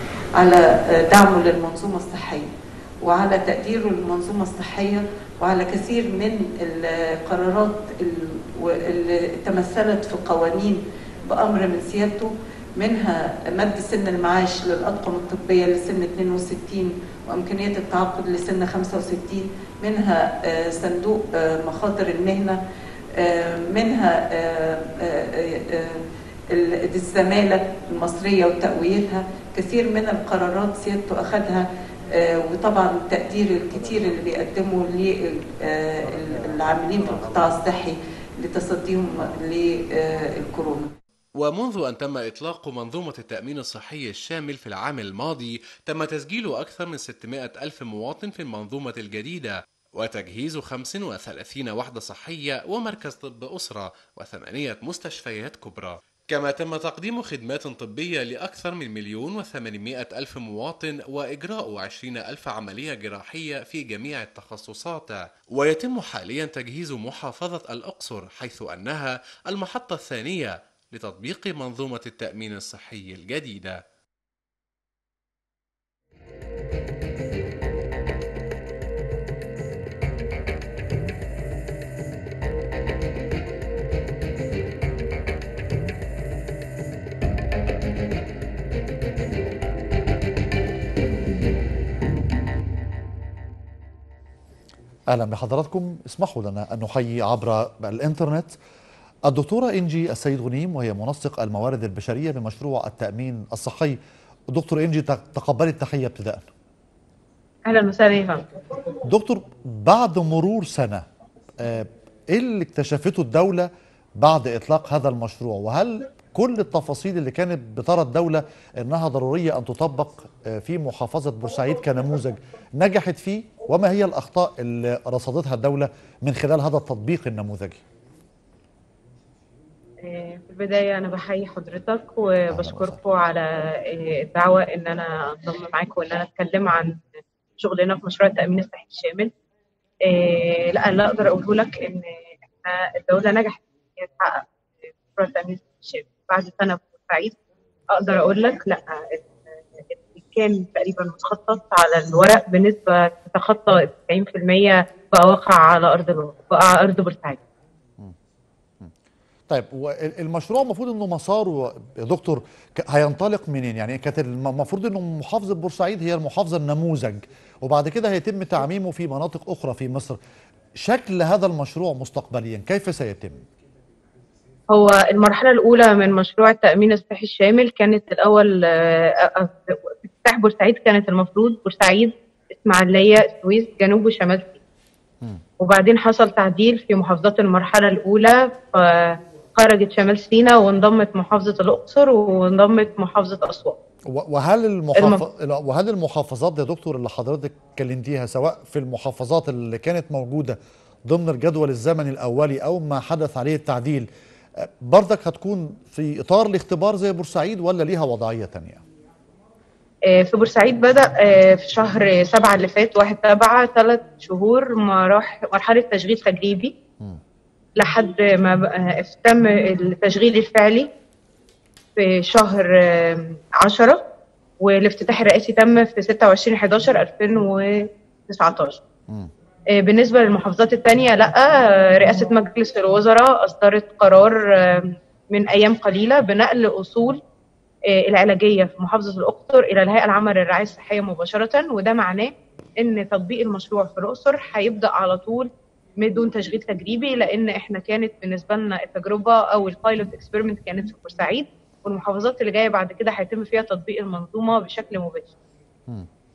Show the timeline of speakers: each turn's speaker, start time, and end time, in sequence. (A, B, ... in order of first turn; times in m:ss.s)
0:00.4-0:02.5 A
0:03.0-0:22.6 A
0:23.2-0:40.9 A
0:41.4-1:13.8 B
1:35.1-1:38.5 C
1:39.3-1:44.0 C
1:44.5-1:46.4 C
1:47.6-1:48.4 D
1:49.1-1:51.0 C
1:51.6-2:07.8 C
2:10.0-2:17.0 D
2:12.5-2:13.0 C
2:17.6-2:19.3 D
2:20.0-2:24.5 D
2:25.1-2:27.3 D
2:27.9-2:37.4 D
2:39.5-2:50.2 C
2:50.8-2:53.4 C
2:54.7-3:04.6 D
3:05.6-3:13.8 D
3:14.1-3:20.6 C
3:15.0-3:15.2 D
3:21.1-3:24.1 C
3:24.6-3:28.8 C
3:30.1-3:36.7 D
3:37.8-3:40.9 D
3:42.0-3:44.0 D
3:44.6-3:48.8 D
3:49.8-3:57.2 D
3:57.9-4:05.5 D
4:06.0-4:15.3 D